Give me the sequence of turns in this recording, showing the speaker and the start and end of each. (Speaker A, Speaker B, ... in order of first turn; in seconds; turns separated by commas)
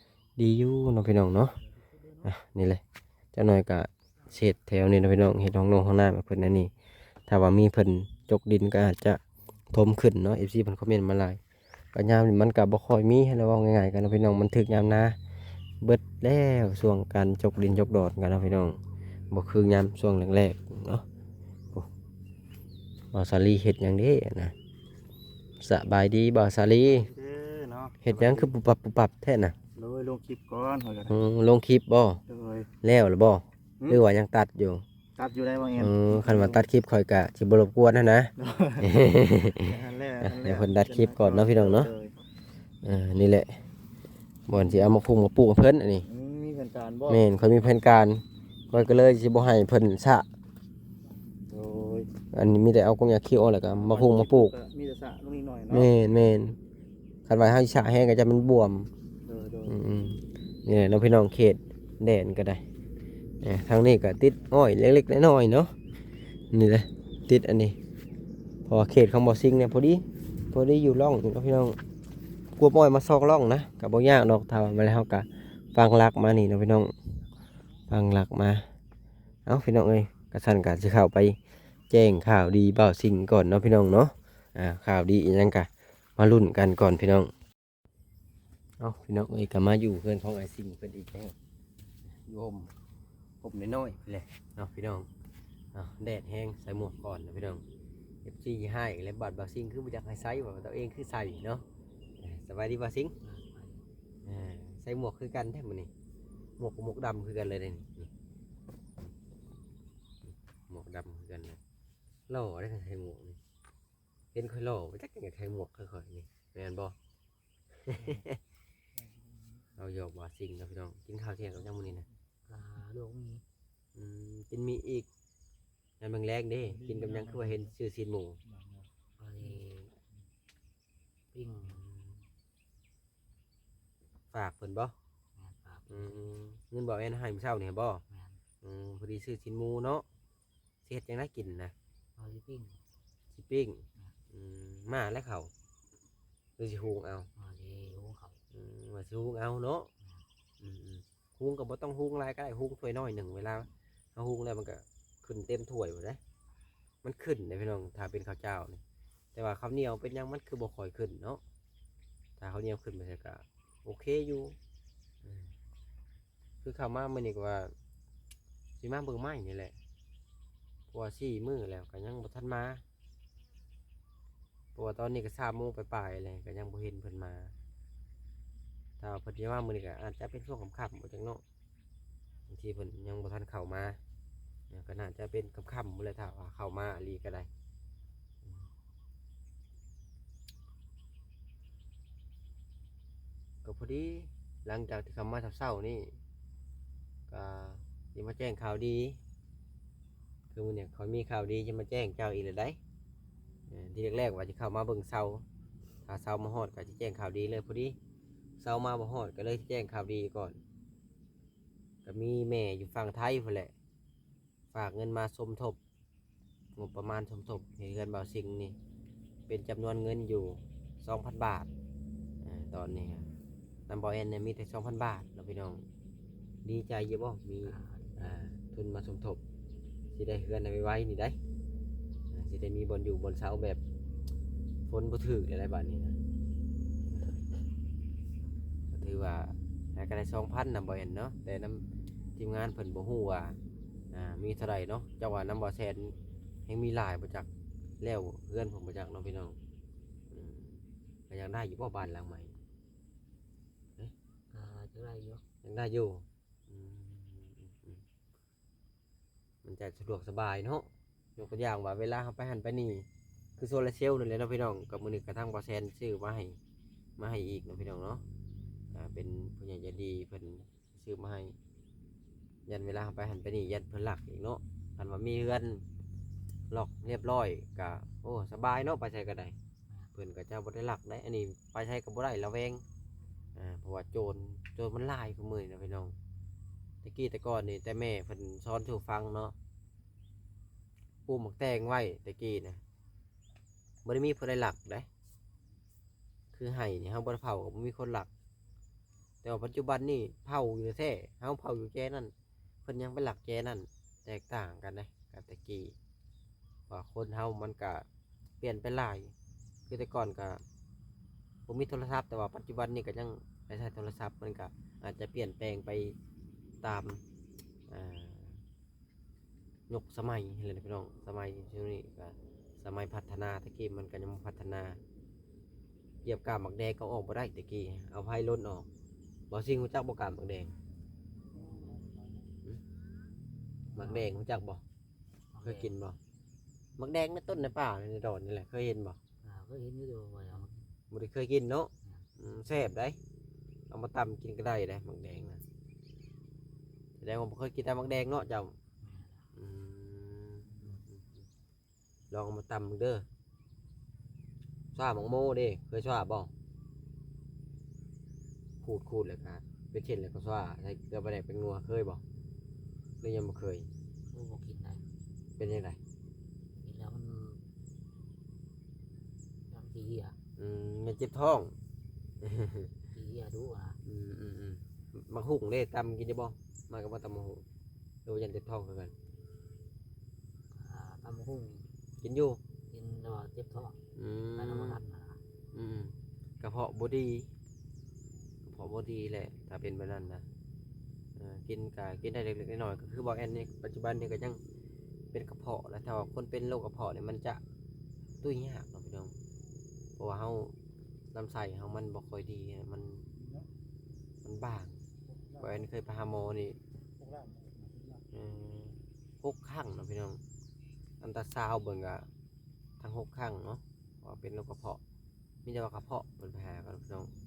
Speaker A: 0.4-1.6, Speaker A: 2.2-2.8, Speaker A: 3.3-6.7, Speaker A: 7.3-11.4, Speaker A: 11.9-15.2, Speaker A: 15.8-18.8, Speaker A: 19.3-21.0, Speaker A: 23.1-24.5, Speaker A: 25.6-27.1, Speaker B: 27.0-28.5, Speaker A: 28.0-29.6, Speaker B: 29.7-31.2, Speaker A: 31.1-32.2, Speaker B: 32.3-32.7, Speaker A: 32.8-34.8, Speaker B: 35.2-36.6, Speaker A: 35.8-41.9, Speaker B: 38.4-39.0, Speaker B: 39.6-42.1, Speaker A: 42.8-43.6, Speaker A: 44.5-46.1, Speaker B: 46.0-47.2, Speaker A: 47.1-50.3, Speaker B: 51.5-52.1, Speaker A: 52.3-54.5, Speaker B: 53.8-55.9, Speaker A: 55.7-56.6, Speaker A: 57.2-58.9, Speaker B: 59.2-59.8, Speaker A: 59.7-62.6, Speaker A: 63.4-65.7, Speaker A: 66.5-67.8, Speaker A: 68.7-71.8, Speaker A: 72.6-76.9, Speaker A: 77.9-78.6, Speaker A: 79.5-81.4, Speaker A: 81.9-87.3, Speaker A: 88.8-91.3, Speaker A: 92.2-92.7, Speaker A: 93.4-95.1, Speaker A: 95.7-97.6, Speaker A: 98.2-101.6, Speaker A: 102.2-103.1, Speaker C: 103.2-103.8, Speaker A: 104.2-105.9, Speaker A: 106.6-108.1, Speaker A: 110.7-111.6, Speaker A: 112.3-113.4, Speaker A: 114.3-117.0, Speaker A: 117.8-118.4, Speaker A: 119.8-122.1, Speaker C: 122.5-123.4, Speaker A: 123.9-125.1, Speaker A: 126.0-128.4, Speaker C: 129.2-129.9, Speaker C: 131.3-131.8, Speaker A: 131.7-132.2, Speaker A: 134.3-134.9, Speaker C: 135.3-136.2, Speaker A: 135.9-138.0, Speaker C: 138.1-138.4, Speaker A: 138.6-140.0, Speaker A: 140.8-141.7, Speaker C: 142.2-142.8, Speaker A: 143.3-145.5, Speaker A: 146.6-147.3, Speaker C: 147.3-148.4, Speaker A: 148.5-149.9, Speaker A: 150.6-156.2, Speaker A: 157.0-158.8, Speaker A: 159.3-161.4, Speaker A: 162.4-164.6, Speaker A: 165.2-165.5, Speaker A: 166.6-167.7, Speaker A: 168.8-169.8, Speaker A: 170.9-172.8, Speaker A: 174.7-177.5, Speaker A: 179.0-181.4, Speaker A: 182.5-184.0, Speaker A: 184.7-187.5, Speaker A: 193.6-196.2, Speaker A: 197.3-199.2, Speaker A: 200.5-202.8, Speaker A: 203.7-205.4, Speaker A: 206.1-207.9, Speaker A: 208.6-210.6, Speaker A: 212.1-213.7, Speaker A: 214.7-215.8, Speaker A: 216.8-218.8, Speaker A: 219.5-221.7, Speaker A: 222.4-223.3, Speaker A: 223.9-225.8, Speaker A: 226.6-229.4, Speaker C: 227.6-228.4, Speaker A: 230.1-231.4, Speaker A: 232.3-233.8, Speaker A: 234.9-236.2, Speaker A: 237.1-237.4, Speaker A: 238.9-241.8, Speaker A: 242.4-243.6, Speaker A: 244.1-246.2, Speaker A: 246.7-247.5, Speaker A: 248.0-249.6, Speaker A: 250.3-252.6, Speaker C: 254.5-255.4, Speaker A: 255.6-258.0, Speaker A: 259.6-263.1, Speaker A: 263.6-266.6, Speaker A: 267.2-268.2, Speaker A: 268.9-271.6, Speaker A: 272.7-275.8, Speaker A: 276.7-279.6, Speaker A: 280.1-282.8, Speaker A: 283.6-286.1, Speaker A: 287.0-289.6, Speaker A: 291.2-292.8, Speaker A: 294.0-295.1, Speaker A: 296.5-298.3, Speaker A: 299.4-302.3, Speaker A: 302.8-305.9, Speaker A: 306.9-308.1, Speaker A: 308.6-309.3, Speaker A: 309.9-310.6, Speaker A: 311.7-316.2, Speaker A: 316.8-317.2, Speaker A: 317.9-318.6, Speaker A: 319.9-325.0, Speaker A: 326.2-328.9, Speaker A: 329.5-330.8, Speaker C: 333.9-334.3, Speaker A: 333.9-334.8, Speaker C: 335.5-335.9, Speaker A: 335.6-336.2, Speaker A: 337.0-339.2, Speaker C: 339.4-340.8, Speaker A: 341.1-343.2, Speaker A: 343.9-345.6, Speaker A: 347.2-348.8, Speaker C: 349.0-349.4, Speaker A: 349.5-351.4, Speaker A: 352.3-353.2, Speaker A: 354.9-356.5, Speaker A: 358.8-362.2, Speaker A: 363.2-363.9, Speaker C: 364.3-365.0, Speaker A: 365.6-366.0, Speaker C: 366.8-367.6, Speaker C: 369.7-370.4, Speaker A: 370.6-371.7, Speaker A: 372.4-372.9, Speaker C: 373.1-374.0, Speaker A: 374.1-377.6, Speaker A: 378.2-379.1, Speaker C: 380.7-381.9, Speaker A: 382.2-382.6, Speaker C: 382.9-384.0, Speaker A: 384.2-385.0, Speaker C: 384.6-385.4, Speaker A: 385.7-387.5, Speaker A: 388.6-390.4, Speaker A: 391.4-394.6, Speaker A: 395.3-397.6, Speaker A: 398.4-399.3, Speaker A: 400.2-400.7, Speaker A: 401.3-403.3, Speaker A: 404.4-405.0, Speaker A: 405.6-406.8, Speaker A: 408.3-410.4, Speaker A: 411.2-412.3, Speaker A: 413.0-415.0, Speaker A: 415.6-417.3